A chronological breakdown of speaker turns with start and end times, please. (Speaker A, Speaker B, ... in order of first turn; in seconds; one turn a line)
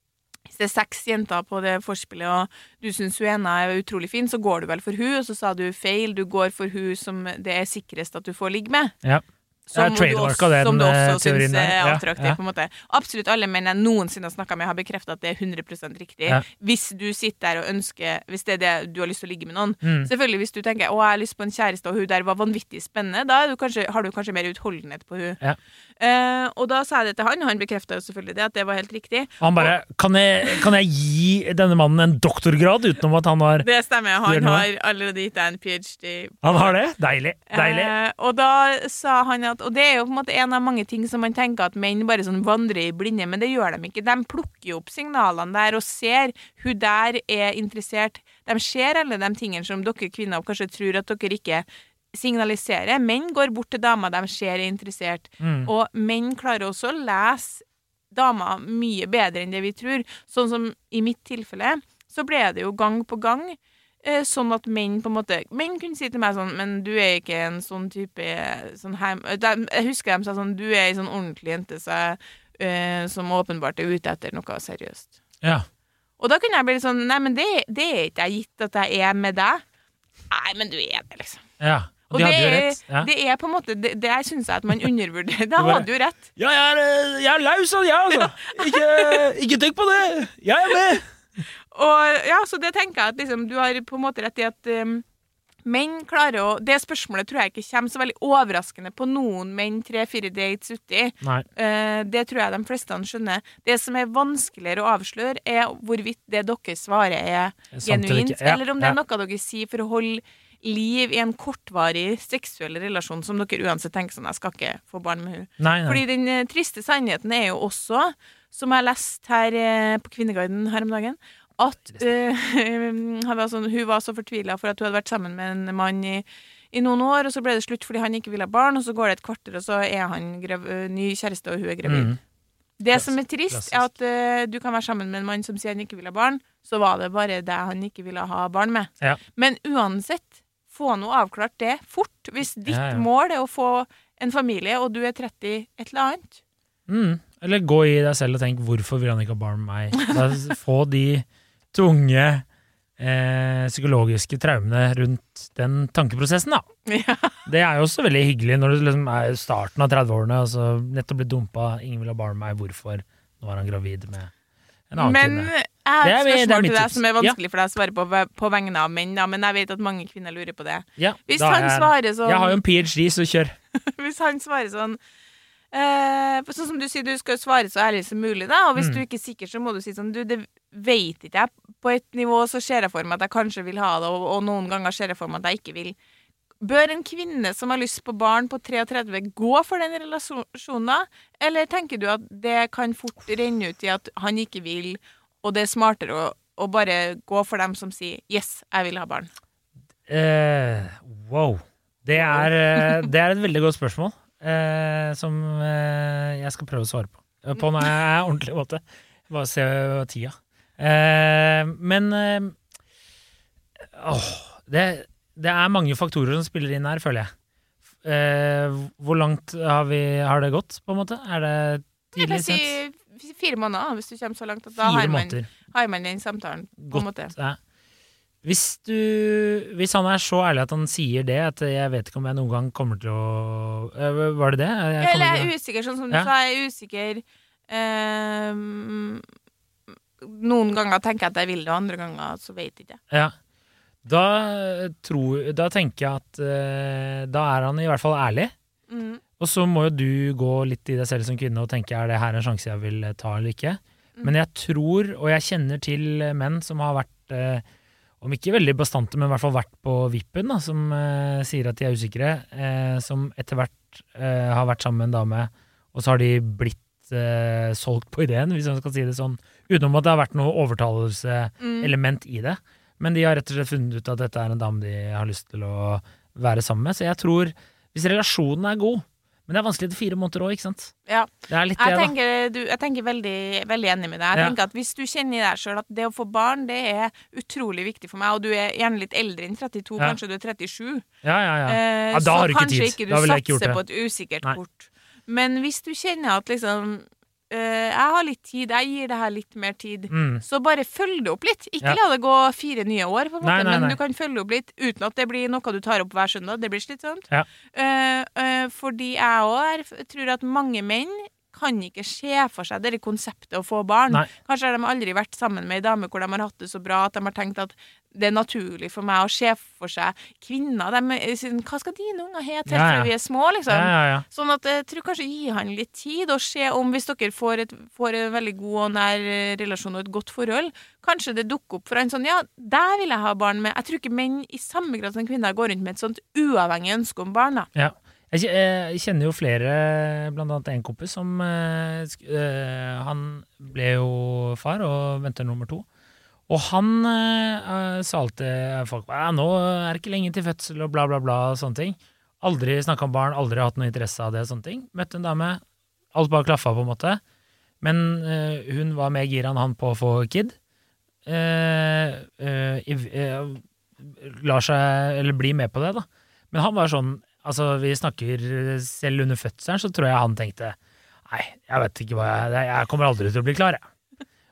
Speaker A: 0.5-8.9
Speaker B: 9.0-12.4
Speaker A: 9.7-25.4
Speaker B: 19.8-20.1
Speaker A: 26.0-29.7
Speaker B: 29.4-33.7
Speaker A: 33.6-36.8
Speaker B: 34.2-34.7
Speaker B: 36.4-37.9
Speaker A: 37.5-75.1
Speaker B: 55.4-55.7
Speaker A: 76.2-79.6
Speaker A: 80.3-81.4
Speaker B: 81.6-83.1
Speaker A: 82.1-86.2
Speaker B: 85.6-91.0
Speaker A: 88.4-89.2
Speaker A: 91.7-95.0
Speaker A: 95.7-132.1
Speaker B: 107.7-109.0
Speaker B: 115.6-116.0
Speaker B: 131.8-132.2
Speaker A: 132.8-146.4
Speaker B: 132.9-133.9
Speaker B: 142.7-143.1
Speaker B: 146.9-152.4
Speaker B: 153.0-156.7
Speaker A: 156.9-157.4
Speaker B: 157.5-164.3
Speaker B: 164.9-165.5
Speaker A: 165.0-172.6
Speaker B: 166.0-167.4
Speaker B: 171.0-173.6
Speaker A: 173.7-175.0
Speaker A: 175.7-186.0
Speaker B: 178.8-179.0
Speaker A: 186.6-199.3
Speaker B: 200.1-212.6
Speaker A: 202.2-202.5
Speaker B: 213.8-217.3
Speaker B: 218.0-222.8
Speaker A: 222.1-227.3
Speaker B: 224.8-225.5
Speaker B: 226.8-227.6
Speaker B: 228.4-235.5
Speaker A: 235.0-239.2
Speaker A: 240.2-243.0
Speaker B: 243.1-243.3
Speaker B: 244.0-248.5
Speaker A: 248.9-249.2
Speaker B: 249.4-257.6
Speaker B: 258.2-280.9
Speaker A: 271.6-271.9
Speaker A: 281.1-291.1
Speaker B: 281.5-282.1
Speaker B: 291.2-293.8
Speaker A: 291.7-337.7
Speaker B: 300.1-300.4
Speaker B: 303.4-304.0
Speaker B: 322.7-323.1
Speaker B: 323.7-324.3
Speaker B: 337.8-345.9
Speaker B: 346.5-355.6
Speaker B: 356.1-357.2
Speaker B: 357.8-360.6
Speaker B: 361.3-370.8
Speaker B: 371.3-373.9